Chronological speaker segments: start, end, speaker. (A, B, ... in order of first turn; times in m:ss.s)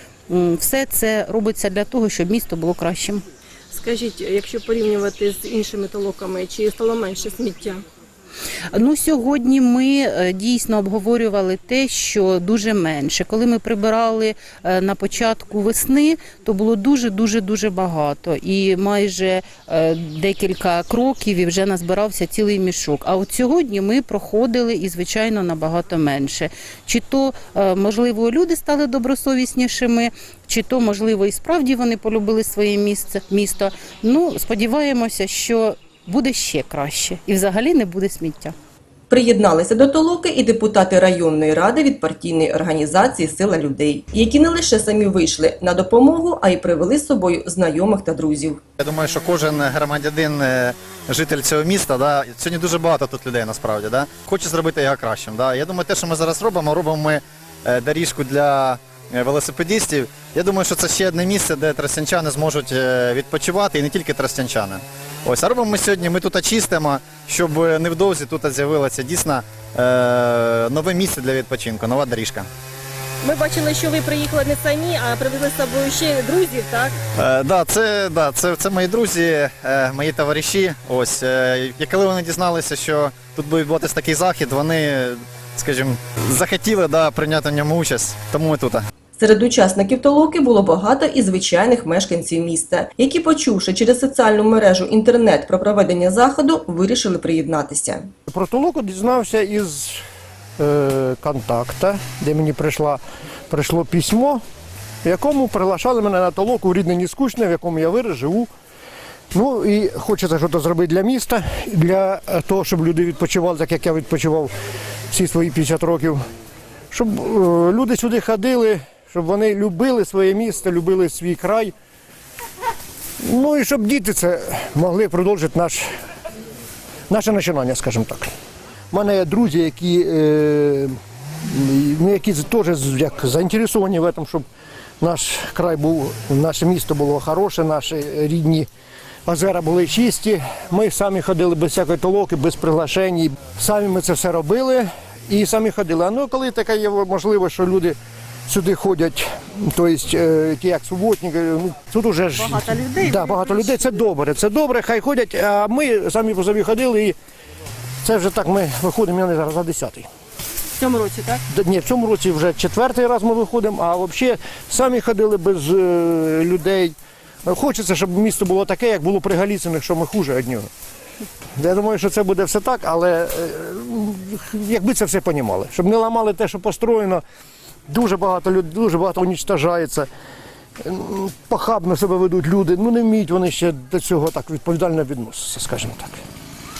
0:00.3-0:03.2 A
0:03.7-0:07.8 B
0:08.7-0:38.5 A
0:39.1-0:48.6 C
0:48.8-1:12.5 D
1:13.2-1:17.0 B
1:17.2-1:28.8 D
1:29.2-1:38.1 C
1:38.3-1:40.0 E
1:40.6-1:44.4 E
1:45.0-1:48.5 E
1:49.3-1:54.5 E
1:55.1-1:56.2 E
1:56.9-2:01.7 E
2:03.2-2:05.9 E
2:07.1-2:08.3 E
2:08.9-2:14.4 E
2:15.0-2:18.7 E
2:19.2-2:28.0 E
2:28.5-2:37.2 E
2:32.4-2:33.8 B
2:38.0-2:40.1 E
2:40.8-2:41.4 B
2:41.5-2:50.7 E
2:51.6-2:57.2 E
2:57.9-3:00.1 E
3:00.8-3:06.2 E